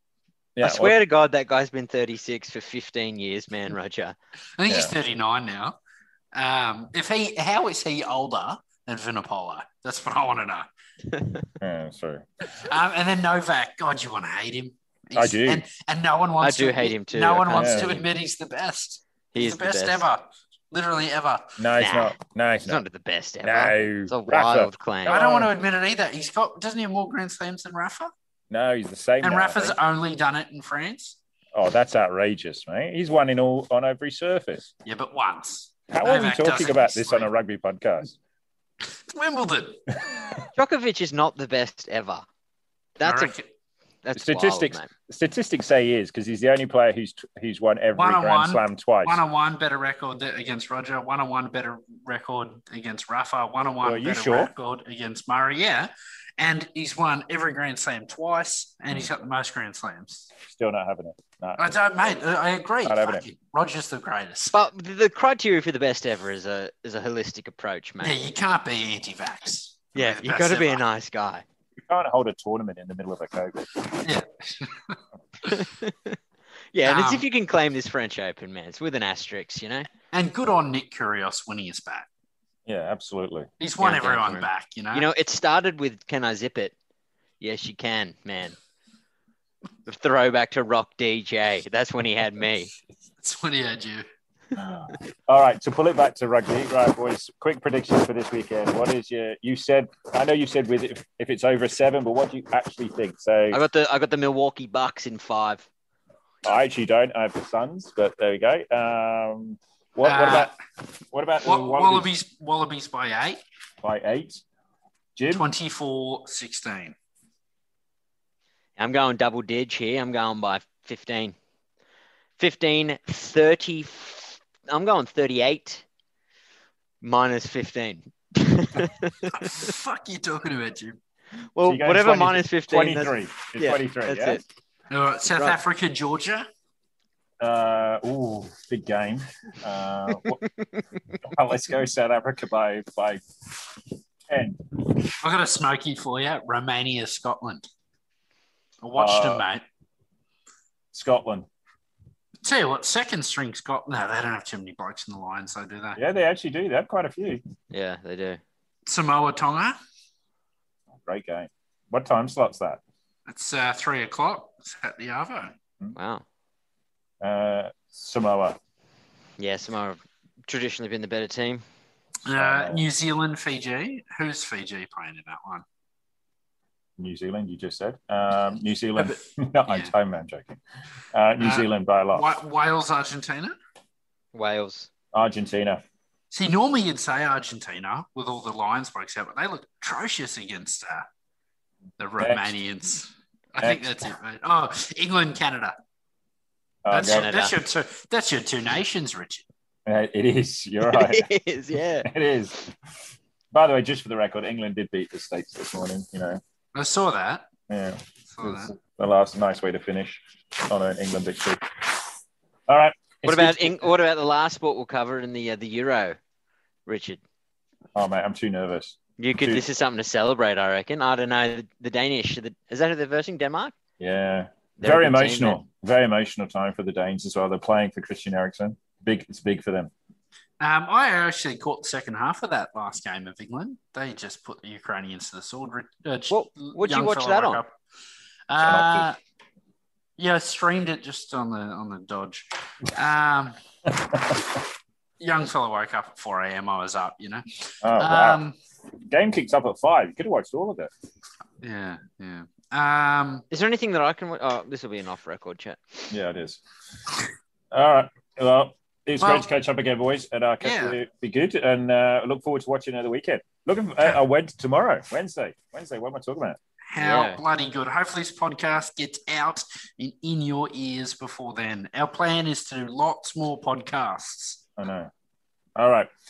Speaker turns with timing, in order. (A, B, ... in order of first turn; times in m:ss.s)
0:00.6-0:01.0 A
0:00.6-0:04.2 B
0:04.6-0:05.8 C
0:04.7-0:05.0 A
0:06.3-0:10.7 C
0:11.6-0:12.5 A
0:12.6-0:21.6 C
0:15.2-0:15.7 A
0:16.4-0:18.0 B
0:17.5-0:18.0 A
0:19.3-0:20.0 B
0:21.6-0:22.8 A
0:21.8-0:22.2 B
0:22.7-0:25.2 B
0:23.4-0:25.5 A
0:25.1-0:28.1 C
0:28.5-0:29.8 A
0:29.2-0:31.2 C
0:31.6-0:34.7 A
0:34.8-0:37.3 C
0:35.9-0:38.2 A
0:38.9-0:39.9 C
0:40.5-0:42.2 B
0:43.0-0:43.3 B
0:43.0-0:43.5 C
0:44.0-0:44.9 B
0:44.2-0:49.2 A
0:48.0-1:00.4 C
0:53.8-0:54.5 A
1:00.4-1:01.8 A
1:01.6-1:04.5 C
1:02.8-1:03.3 A
1:04.5-1:08.2 B
1:08.0-1:10.8 C
1:10.0-1:11.4 B
1:11.8-1:13.9 A
1:14.0-1:15.0 C
1:15.5-1:16.2 B
1:16.7-1:19.9 B
1:16.8-1:17.2 C
1:20.1-1:22.1 C
1:22.7-1:23.5 A
1:23.6-1:25.1 C
1:23.8-1:26.8 B
1:27.4-1:28.6 B
1:29.9-1:32.7 B
1:33.2-1:34.0 C
1:34.6-1:43.6 A
1:43.5-1:45.7 B
1:46.4-1:50.5 A
1:50.0-1:50.5 C
1:51.1-1:52.1 A
1:51.4-1:53.4 C
1:53.8-1:54.4 A
1:55.2-1:55.4 A
1:55.3-1:57.0 C
1:58.8-2:01.4 B
2:02.4-2:05.8 B
2:07.0-2:09.7 B
2:09.3-2:11.0 C
2:11.6-2:14.4 B
2:11.6-2:14.4 A
2:14.9-2:16.5 C
2:17.4-2:20.4 A
2:20.4-2:20.9 B
2:21.2-2:23.2 A
2:24.3-2:24.6 A
2:25.2-2:27.7 C
2:28.8-2:29.6 C
2:29.0-2:29.4 A
2:30.9-2:31.5 A
2:32.4-2:36.0 C
2:36.0-2:37.4 A
2:37.7-2:38.4 B
2:38.9-2:39.8 C
2:40.9-2:42.8 A
2:43.3-2:45.6 C
2:46.0-2:46.2 B
2:47.2-2:48.6 A
2:49.4-2:51.6 B
2:52.2-2:55.6 C
2:52.3-2:52.8 A
2:57.0-3:00.6 A
2:59.7-2:59.9 C
3:01.1-3:02.3 A
3:01.4-3:03.6 C
3:04.3-3:04.9 B
3:05.1-3:05.8 A
3:06.3-3:11.1 C
3:12.0-3:15.8 C
3:12.2-3:12.6 A
3:13.6-3:14.0 A
3:16.8-3:17.3 A
3:16.9-3:19.5 C
3:16.9-3:17.6 B
3:19.9-3:21.3 A
3:20.8-3:22.1 B
3:22.0-3:22.7 A
3:23.5-3:26.4 A
3:26.8-3:27.5 C
3:27.7-3:32.0 A
3:28.3-3:28.7 C
3:32.7-3:33.9 A
3:33.2-3:36.2 B
3:36.9-3:37.2 B
3:38.0-3:39.6 A
3:39.2-3:43.7 B
3:44.0-3:49.9 A
3:44.8-3:45.6 B
3:50.6-3:57.7 C
3:56.3-3:57.6 B
3:58.5-3:59.2 C
3:58.6-3:59.1 A
4:00.2-4:03.6 C
4:03.9-4:04.5 A
4:05.2-4:08.6 C
4:07.8-4:08.4 A
4:09.0-4:10.9 A
4:11.6-4:13.5 C
4:13.5-4:16.1 B
4:16.1-4:16.6 A
4:17.7-4:26.6 A
4:19.2-4:19.5 C
4:20.6-4:21.0 C
4:26.9-4:34.6 C
4:27.0-4:27.4 B
4:34.8-4:35.1 A
4:35.8-4:36.1 A